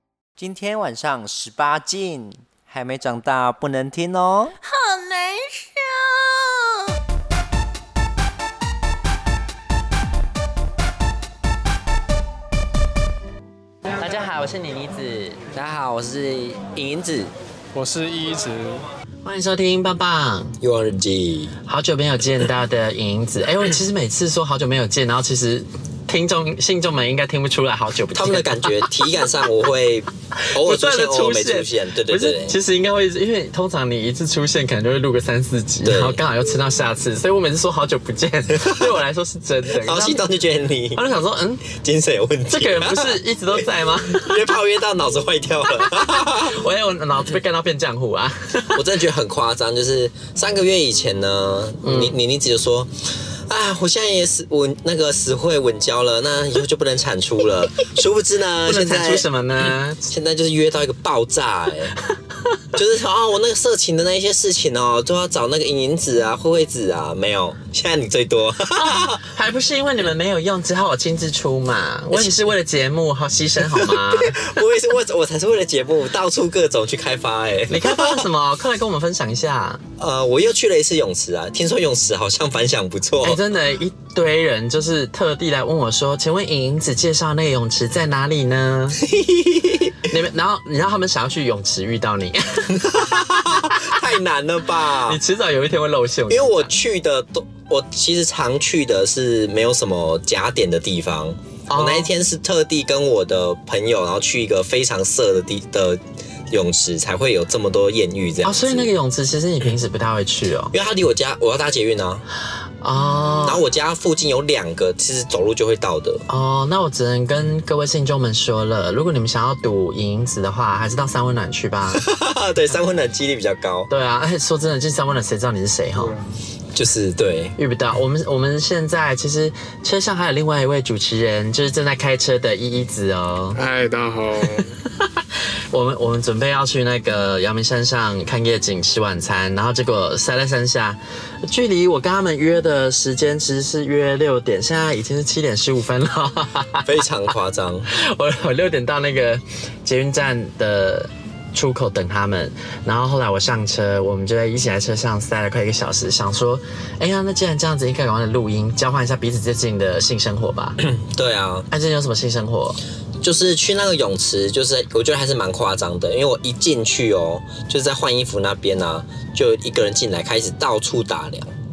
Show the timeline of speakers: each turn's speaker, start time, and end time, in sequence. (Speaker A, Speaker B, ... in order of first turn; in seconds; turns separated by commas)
Speaker A: 0.4-4.6, Speaker B: 4.9-5.4, Speaker B: 14.0-15.4, Speaker C: 15.5-17.3, Speaker D: 17.7-18.8, Speaker B: 19.2-20.6, Speaker C: 20.6-21.6, Speaker B: 21.7-29.1, Speaker C: 28.1-32.6, Speaker B: 30.4-40.2, Speaker C: 35.9-36.2, Speaker C: 38.5-38.9, Speaker C: 39.7-41.0, Speaker B: 41.0-41.7, Speaker C: 41.7-43.2, Speaker B: 42.5-44.4, Speaker C: 44.1-46.6, Speaker B: 46.1-48.9, Speaker C: 48.7-52.9, Speaker B: 51.8-52.2, Speaker C: 53.5-59.3, Speaker B: 58.6-60.0, Speaker C: 60.1-61.9, Speaker C: 62.7-69.2, Speaker B: 68.8-74.5, Speaker C: 73.7-78.3, Speaker B: 77.7-79.8, Speaker C: 80.0-83.4, Speaker B: 83.2-89.0, Speaker C: 89.0-90.0, Speaker B: 90.1-92.9, Speaker C: 92.7-95.2, Speaker B: 95.0-96.7, Speaker C: 96.3-108.9, Speaker B: 101.7-102.1, Speaker B: 108.4-110.7, Speaker C: 110.7-112.2, Speaker B: 112.8-113.6, Speaker C: 113.4-116.2, Speaker B: 116.3-122.0, Speaker C: 121.9-123.9, Speaker B: 123.9-126.1, Speaker D: 126.0-126.2, Speaker C: 126.7-127.6, Speaker B: 127.6-133.6, Speaker D: 133.6-134.7, Speaker B: 135.7-146.9, Speaker C: 146.8-147.9, Speaker B: 147.9-160.8, Speaker C: 160.8-161.7, Speaker B: 161.7-162.8, Speaker C: 163.2-171.5